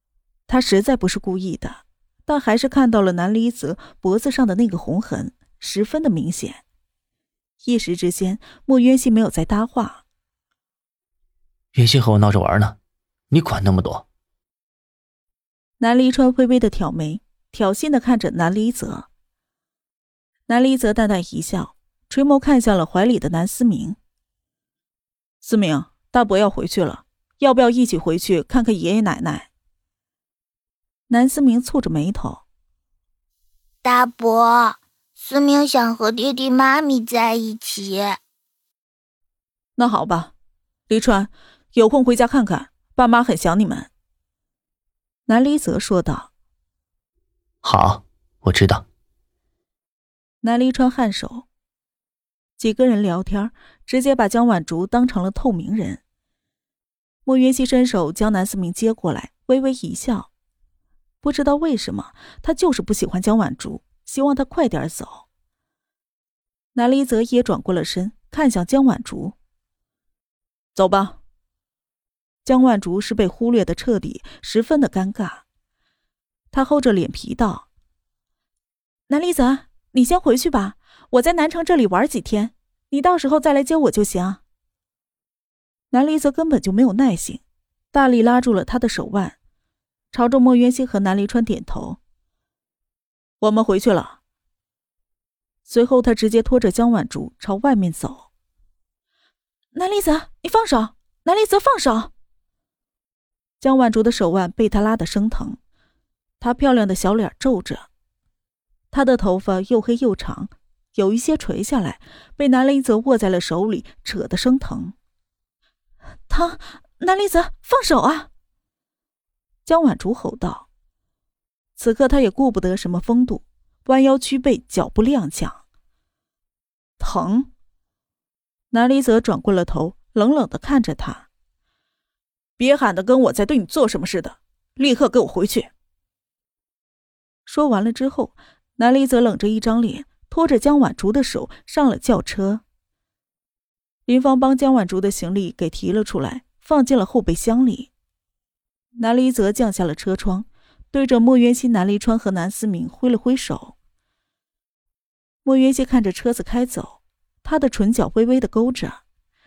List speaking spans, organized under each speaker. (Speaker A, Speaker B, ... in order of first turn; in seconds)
Speaker A: 0.5-6.6, 7.6-10.0, 15.8-19.1, 20.5-24.0, 25.4-29.5, 31.1-32.4, 39.8-40.3, 40.9-43.9, 45.3-46.3, 50.4-51.5, 52.6-56.0, 57.2-60.3, 61.2-65.3, 66.7-69.3, 70.8-71.2, 72.5-75.4, 76.5-77.7, 79.1-84.4, 85.9-89.4, 90.1-92.0, 93.4-94.2, 95.7-98.3, 99.7-102.1, 103.6-105.6, 106.4-107.9, 108.9-115.0, 116.3-118.3, 119.7-120.7, 121.8-125.6, 127.0-127.5, 128.7-131.3, 132.6-135.7, 137.5-142.6, 144.1-147.9, 149.0-153.8, 155.4-159.0
Speaker B: 11.7-12.8, 13.3-14.1, 47.6-48.8
Speaker C: 33.8-38.2